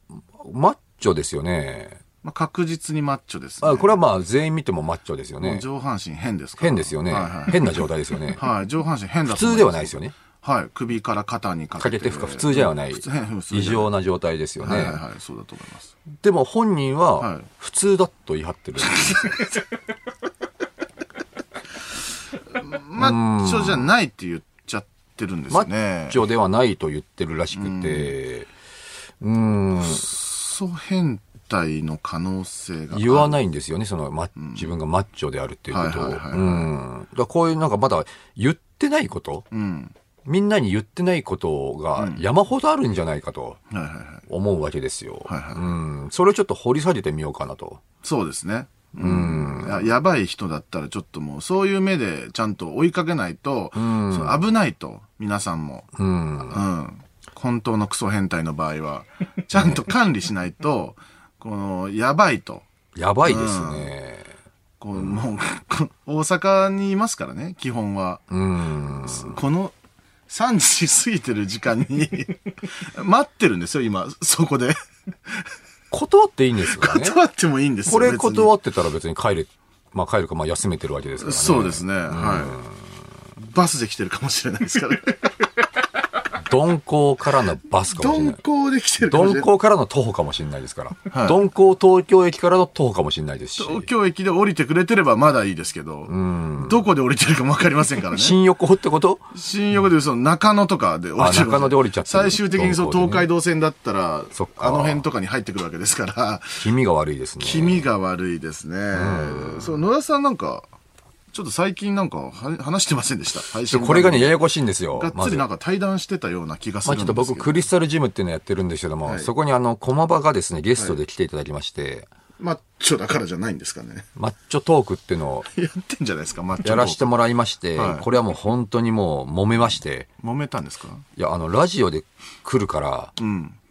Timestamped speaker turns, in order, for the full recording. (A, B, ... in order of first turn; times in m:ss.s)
0:00.3-0:02.0 A
0:02.2-0:04.0 B
0:03.6-0:05.6 A
0:05.4-0:07.8 B
0:06.6-0:08.4 A
0:08.3-0:13.9 B
0:09.2-0:10.1 A
0:11.8-0:15.0 A
0:14.6-0:15.9 B
0:16.2-0:19.4 A
0:17.2-0:17.5 B
0:18.9-0:19.5 B
0:22.5-0:26.2 B
0:23.0-0:23.9 A
0:25.5-0:28.5 A
0:27.5-0:28.1 B
0:29.2-0:30.0 A
0:29.8-0:33.4 B
0:32.9-0:39.5 A
0:34.4-0:34.7 B
0:35.7-0:36.7 B
0:39.5-0:39.9 B
0:40.2-0:43.6 A
0:41.9-0:42.2 B
0:43.7-0:44.2 B
0:44.3-0:47.8 A
0:45.2-0:45.7 B
0:48.0-0:55.9 B
0:49.0-0:49.9 A
0:53.7-0:54.4 A
0:56.0-0:56.6 A
0:56.5-1:02.7 B
1:02.9-1:04.3 A
1:03.2-1:03.9 B
1:04.8-1:08.3 B
1:08.3-1:09.4 A
1:09.0-1:09.7 B
1:10.3-1:14.8 B
1:15.9-1:17.2 A
1:16.6-1:18.5 B
1:17.9-1:22.8 A
1:21.2-1:22.6 B
1:23.4-1:25.4 B
1:26.4-1:28.4 A
1:27.9-1:29.5 B
1:29.0-1:33.9 A
1:31.1-1:31.4 B
1:33.6-1:38.4 B
1:36.1-1:36.8 A
1:38.1-1:39.2 A
1:39.3-1:46.6 B
1:41.2-1:43.3 A
1:44.3-1:45.0 A
1:46.6-1:47.9 A
1:47.4-1:50.7 B
1:48.9-1:49.8 A
1:51.3-1:57.7 B
1:53.7-1:55.4 A
1:56.8-2:02.1 A
1:59.0-1:59.3 B
2:02.4-2:04.1 B
2:04.2-2:05.5 A
2:05.5-2:07.2 B
2:06.6-2:10.1 A
2:07.7-2:08.0 B
2:10.2-2:11.0 B
2:11.2-2:13.1 A
2:13.2-2:13.6 B